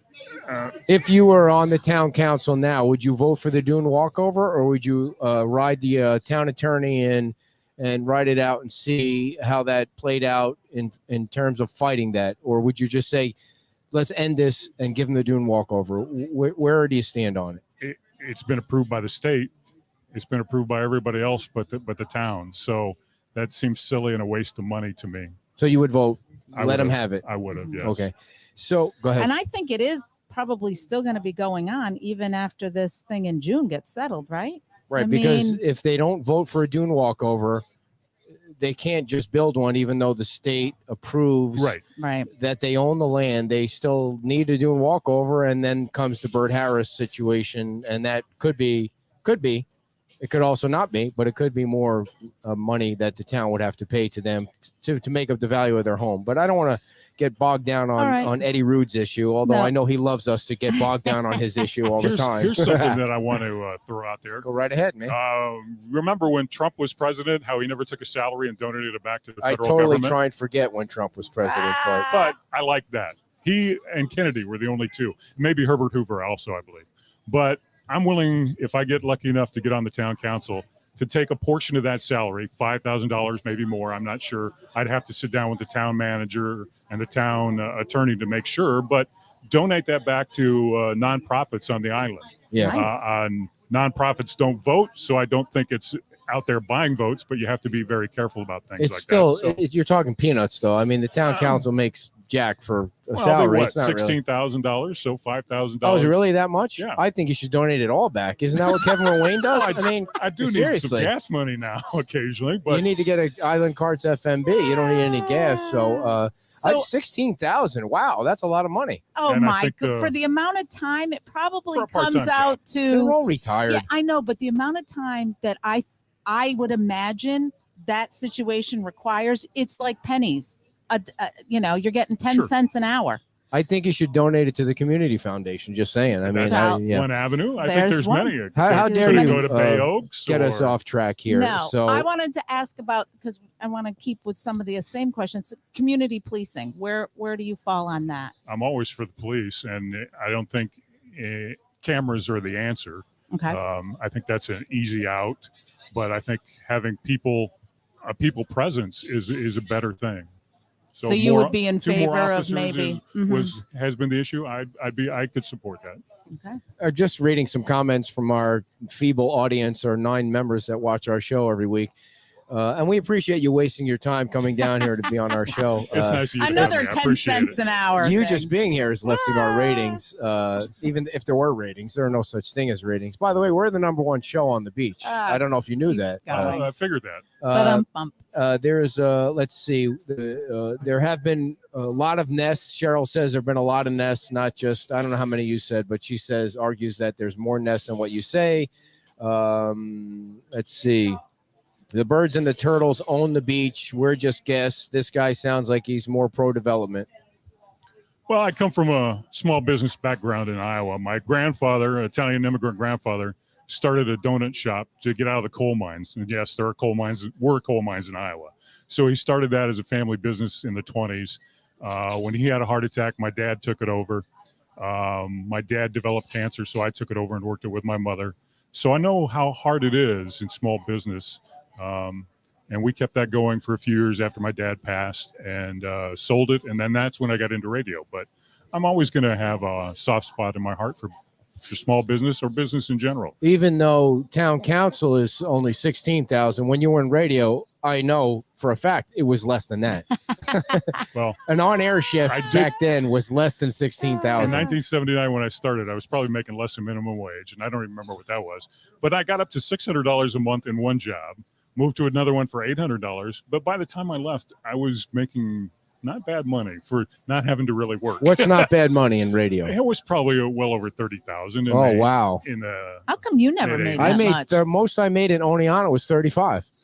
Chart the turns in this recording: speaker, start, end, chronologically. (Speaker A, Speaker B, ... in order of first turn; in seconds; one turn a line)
Speaker A: 0.5-0.7
Speaker B: 0.9-13.3
Speaker B: 13.9-17.6
Speaker A: 17.8-19.5
Speaker A: 20.1-25.3
Speaker B: 25.6-29.3
Speaker A: 26.5-28.1
Speaker C: 29.2-35.6
Speaker B: 34.9-37.6
Speaker B: 38.6-49.6
Speaker A: 41.5-41.8
Speaker C: 42.0-42.3
Speaker B: 50.2-63.0
Speaker C: 58.0-58.3
Speaker C: 59.4-59.7
Speaker A: 62.0-64.5
Speaker B: 64.4-65.2
Speaker A: 65.0-70.2
Speaker B: 69.4-72.1
Speaker C: 71.6-72.2
Speaker A: 72.1-99.6
Speaker B: 92.5-92.8
Speaker C: 92.5-93.1
Speaker B: 98.8-104.2
Speaker A: 103.1-106.2
Speaker B: 105.8-111.1
Speaker A: 109.5-112.9
Speaker B: 112.7-119.0
Speaker C: 115.5-116.9
Speaker C: 119.1-123.2
Speaker A: 119.3-120.1
Speaker A: 121.7-122.6
Speaker B: 122.9-123.8
Speaker C: 123.7-133.2
Speaker A: 132.2-132.5
Speaker B: 133.5-137.1
Speaker A: 136.2-140.7
Speaker C: 136.4-136.8
Speaker C: 137.6-139.4
Speaker B: 138.5-142.1
Speaker C: 141.3-148.3
Speaker A: 148.5-157.5
Speaker C: 153.3-153.6
Speaker A: 158.0-160.3
Speaker A: 160.9-166.0
Speaker C: 161.0-163.6
Speaker C: 166.3-166.6
Speaker B: 166.8-171.9
Speaker B: 172.5-176.8
Speaker A: 175.8-177.6
Speaker C: 176.4-178.5
Speaker B: 177.9-186.6
Speaker C: 179.3-179.9
Speaker C: 185.0-186.7
Speaker A: 186.3-187.2
Speaker B: 187.4-201.2
Speaker C: 187.5-188.2
Speaker B: 201.9-207.1
Speaker A: 208.3-224.2
Speaker A: 224.8-241.1
Speaker A: 241.6-243.3
Speaker B: 243.4-254.7
Speaker A: 251.1-251.4
Speaker A: 252.2-252.7
Speaker A: 254.4-268.7
Speaker B: 268.2-269.7
Speaker A: 269.6-274.3
Speaker B: 271.7-272.4
Speaker C: 273.1-274.6
Speaker B: 274.0-276.7